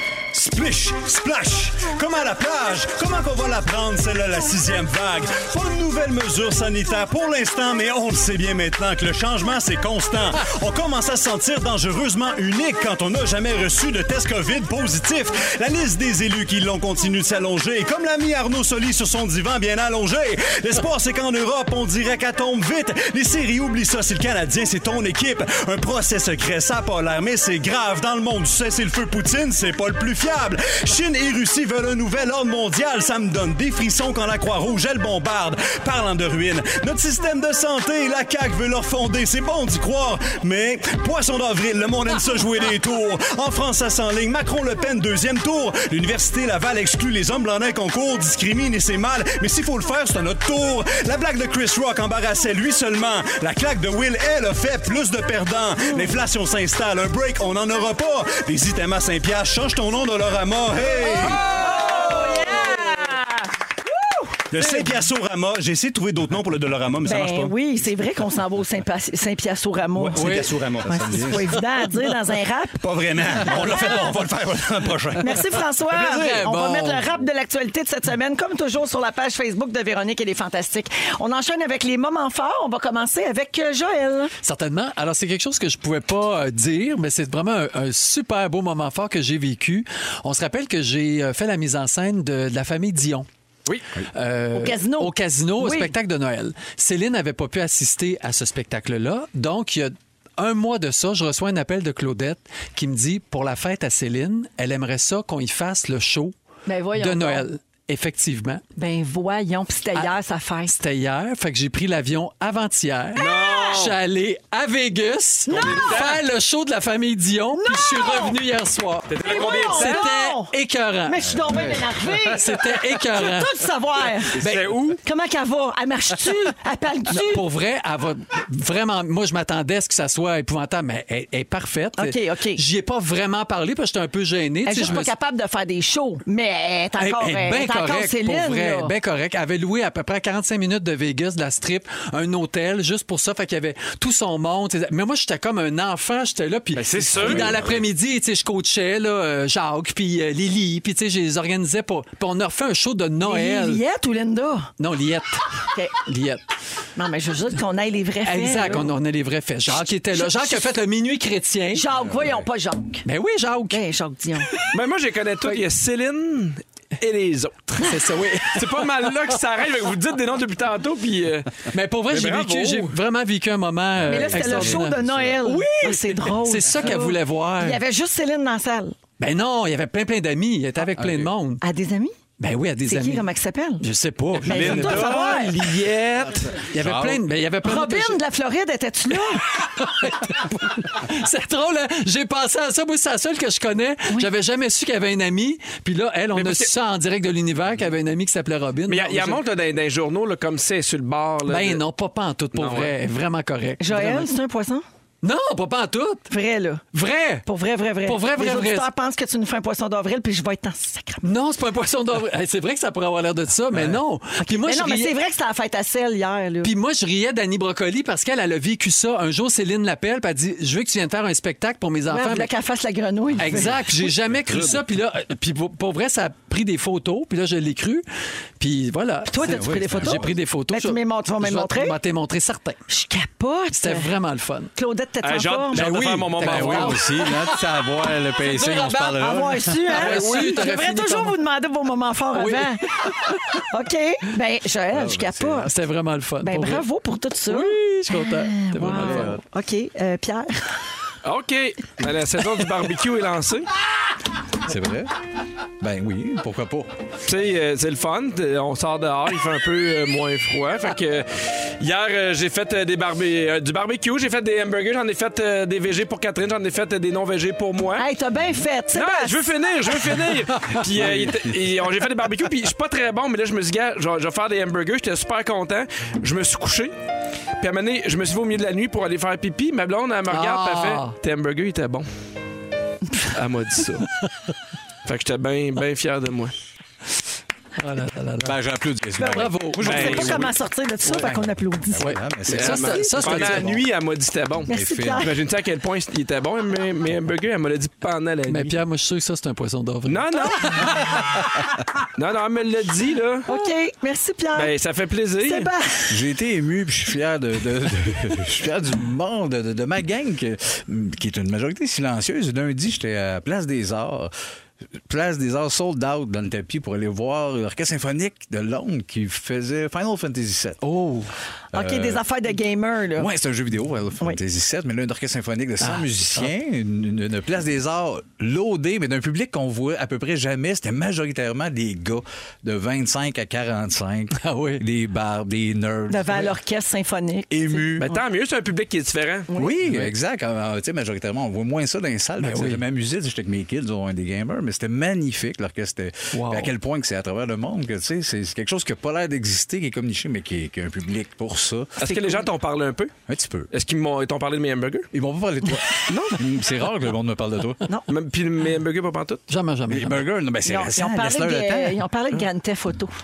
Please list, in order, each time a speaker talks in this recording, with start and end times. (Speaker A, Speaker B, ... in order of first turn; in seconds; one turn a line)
Speaker A: 0.3-62.4
Speaker B: 61.1-64.3
Speaker A: 64.5-67.5
Speaker B: 67.0-72.8
Speaker A: 70.0-71.2
Speaker C: 70.2-70.5
Speaker D: 70.9-71.6
Speaker A: 72.8-75.6
Speaker B: 73.4-74.1
Speaker B: 75.2-84.3
Speaker C: 75.9-77.1
Speaker C: 84.4-93.3
Speaker C: 94.1-106.3
Speaker B: 94.5-95.9
Speaker B: 106.7-107.5
Speaker C: 107.0-108.6
Speaker B: 108.8-110.8
Speaker C: 110.7-123.5
Speaker E: 113.2-114.0
Speaker B: 113.2-113.6
Speaker B: 115.5-116.0
Speaker E: 115.5-116.2
Speaker B: 117.6-118.4
Speaker E: 119.1-120.1
Speaker B: 119.2-120.5
Speaker B: 121.1-124.4
Speaker D: 121.4-121.9
Speaker C: 124.4-125.0
Speaker E: 124.4-125.0
Speaker B: 125.0-127.4
Speaker C: 127.1-135.1
Speaker B: 132.0-132.6
Speaker B: 134.7-138.9
Speaker C: 137.0-153.8
Speaker E: 146.8-147.7
Speaker D: 146.9-147.8
Speaker B: 153.2-154.7
Speaker C: 154.8-155.4
Speaker C: 156.0-156.4
Speaker B: 157.0-158.9
Speaker C: 158.2-161.9
Speaker B: 159.7-160.7
Speaker B: 161.7-163.1
Speaker C: 163.1-163.8
Speaker B: 163.7-164.5
Speaker E: 164.7-173.0
Speaker C: 167.8-168.8
Speaker C: 171.7-177.8
Speaker D: 174.0-175.3
Speaker B: 174.1-178.9
Speaker C: 179.2-181.6
Speaker D: 180.9-181.3
Speaker B: 181.6-182.1
Speaker C: 182.4-183.3
Speaker B: 182.8-183.9
Speaker C: 183.8-185.6
Speaker B: 184.4-185.6
Speaker E: 184.4-186.6
Speaker C: 186.6-188.2
Speaker D: 186.7-187.2
Speaker B: 187.6-189.5
Speaker C: 189.3-199.4
Speaker E: 196.3-196.7
Speaker E: 198.9-201.8
Speaker C: 201.5-204.3
Speaker E: 202.5-202.9
Speaker B: 203.8-204.8
Speaker C: 205.2-206.3
Speaker B: 206.3-206.8
Speaker C: 206.9-207.4
Speaker B: 207.4-211.3
Speaker C: 208.1-208.9
Speaker C: 211.2-215.1
Speaker D: 213.7-214.0
Speaker B: 214.4-216.7
Speaker C: 216.6-222.5
Speaker B: 222.1-223.8
Speaker C: 223.4-228.1
Speaker D: 223.4-224.9
Speaker C: 228.6-232.8
Speaker B: 229.3-232.0
Speaker D: 229.4-230.4
Speaker B: 232.9-234.1
Speaker C: 233.7-234.7
Speaker B: 234.8-235.8
Speaker E: 235.2-237.0
Speaker C: 235.7-237.3
Speaker D: 236.4-240.3
Speaker C: 238.5-238.9
Speaker B: 238.6-245.7
Speaker C: 239.9-241.4
Speaker C: 242.3-243.6
Speaker D: 244.9-245.7
Speaker C: 245.7-246.8
Speaker B: 246.4-250.7
Speaker C: 247.5-249.4
Speaker D: 248.9-249.4
Speaker E: 251.2-253.7
Speaker D: 254.6-255.1
Speaker D: 255.8-256.9
Speaker E: 257.2-268.1
Speaker B: 268.0-269.5
Speaker E: 268.9-276.9
Speaker D: 270.9-271.7
Speaker E: 277.6-282.1
Speaker C: 280.3-281.1
Speaker E: 283.3-284.1
Speaker E: 285.1-286.5
Speaker C: 287.8-288.6
Speaker D: 288.4-290.6
Speaker B: 289.2-292.1
Speaker C: 289.3-290.1
Speaker E: 289.8-290.5
Speaker D: 291.1-293.9
Speaker C: 292.0-293.7
Speaker E: 292.5-298.8
Speaker B: 294.7-295.3
Speaker D: 294.7-295.3
Speaker C: 298.5-300.9
Speaker E: 300.1-300.9
Speaker E: 302.1-303.5
Speaker B: 303.5-304.7
Speaker E: 304.6-305.7
Speaker B: 305.4-306.1
Speaker D: 306.1-314.3
Speaker D: 315.1-320.8
Speaker C: 320.8-321.3
Speaker D: 321.7-322.2
Speaker B: 321.7-323.3
Speaker D: 323.2-336.5
Speaker C: 325.8-326.5
Speaker C: 334.4-334.8
Speaker B: 336.1-337.9
Speaker D: 337.5-338.1
Speaker E: 338.0-339.5
Speaker B: 339.5-339.8
Speaker D: 339.5-352.0
Speaker C: 339.8-340.1
Speaker C: 342.4-342.8
Speaker C: 346.3-346.7
Speaker E: 352.0-353.1
Speaker B: 352.0-352.4
Speaker D: 353.3-353.7
Speaker E: 353.7-355.1
Speaker D: 355.1-357.8
Speaker E: 358.1-359.5
Speaker C: 359.5-360.2
Speaker D: 359.9-362.0
Speaker B: 360.7-363.1